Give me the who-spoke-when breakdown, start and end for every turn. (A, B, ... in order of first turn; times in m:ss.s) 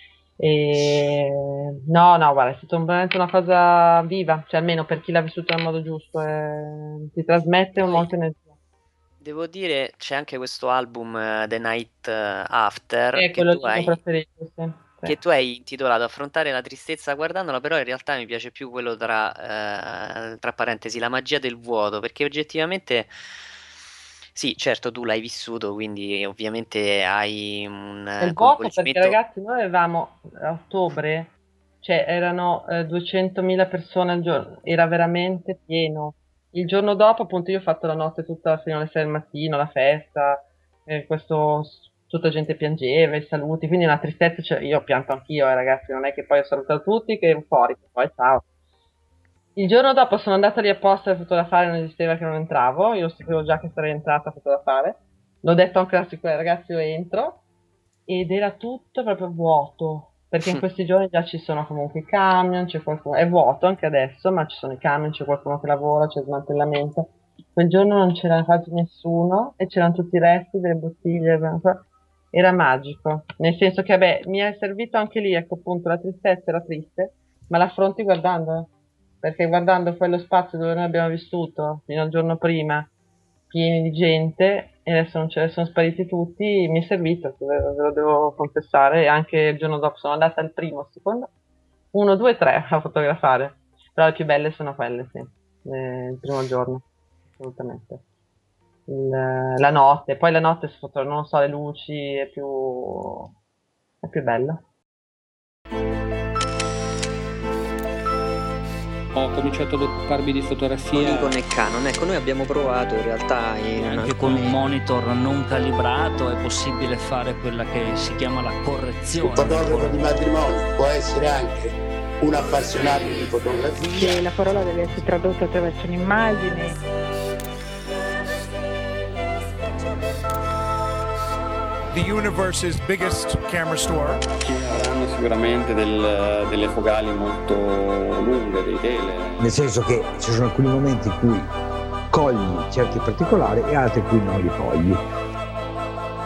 0:00.4-0:08.6 A
0:07.8-0:08.1 B
0:09.2-0:14.0 B
0:13.1-0:15.2 A
0:15.1-0:23.1 B
0:24.4-0:29.2 B
0:28.2-0:48.4 A
0:49.6-0:57.4 A
0:58.1-1:18.7 A
1:19.2-1:22.9 A
1:23.5-1:31.3 A
1:31.9-1:38.0 A
1:38.9-1:43.3 A
1:44.0-1:44.6 A
1:49.1-1:51.4 C
1:50.9-1:54.6 B
1:53.8-2:00.2 D
1:59.2-2:04.2 E
2:03.9-2:06.8 F
2:11.9-2:14.2 G
2:14.4-2:19.4 H
2:19.4-2:21.4 I
2:22.1-2:25.0 I